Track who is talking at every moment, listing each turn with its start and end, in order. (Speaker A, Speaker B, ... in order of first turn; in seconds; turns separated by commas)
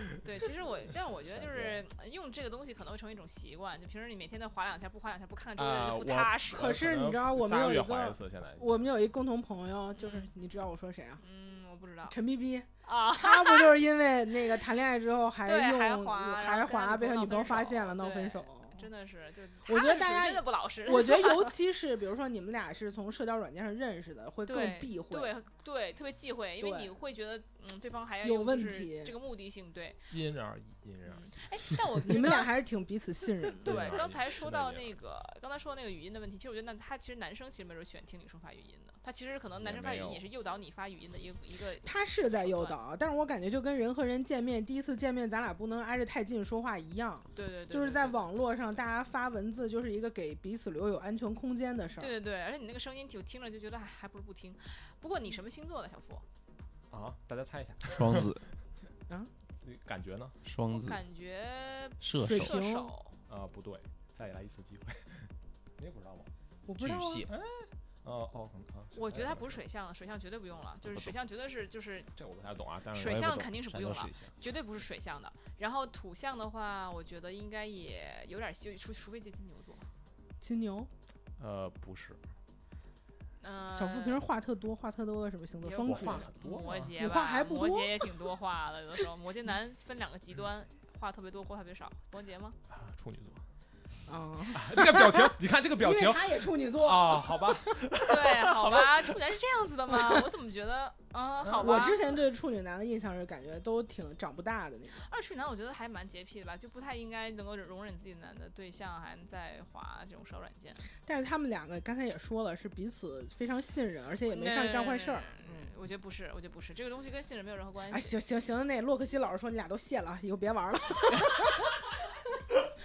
Speaker A: 0.2-6.7, Speaker B: 1.3-1.8, Speaker C: 5.6-8.9, Speaker D: 6.5-11.2, Speaker A: 10.0-10.3, Speaker A: 11.2-12.2, Speaker D: 12.1-18.9, Speaker A: 12.8-13.8, Speaker A: 15.4-21.5, Speaker D: 19.6-25.3, Speaker A: 24.5-30.0, Speaker D: 26.6-26.9, Speaker D: 28.2-29.1, Speaker C: 30.1-31.3, Speaker A: 31.0-32.5, Speaker D: 32.0-34.0, Speaker C: 33.6-35.0, Speaker A: 33.6-42.8, Speaker B: 39.6-40.2, Speaker D: 41.8-52.1, Speaker A: 47.3-48.2, Speaker A: 52.0-56.2, Speaker C: 56.9-58.4, Speaker B: 57.9-58.5, Speaker C: 59.6-60.4, Speaker B: 60.4-61.0, Speaker A: 60.7-63.2, Speaker B: 62.0-62.5, Speaker D: 62.1-62.9, Speaker C: 63.3-66.3, Speaker D: 66.7-67.3, Speaker B: 66.8-67.3, Speaker C: 67.3-69.6, Speaker A: 68.9-72.1, Speaker B: 70.8-71.1, Speaker C: 72.2-73.3, Speaker A: 72.9-79.9, Speaker B: 73.0-74.5, Speaker D: 80.4-80.9, Speaker C: 81.4-82.2, Speaker A: 83.4-84.2, Speaker D: 83.7-86.3, Speaker A: 85.6-92.6, Speaker C: 85.8-86.9, Speaker D: 87.0-88.2, Speaker C: 92.7-93.4, Speaker D: 94.1-97.8, Speaker C: 94.5-99.0, Speaker A: 98.0-102.0, Speaker D: 99.9-100.2, Speaker C: 101.4-101.9, Speaker D: 101.6-105.1, Speaker A: 105.0-110.9, Speaker D: 111.0-115.7, Speaker A: 114.2-118.1, Speaker D: 117.9-121.8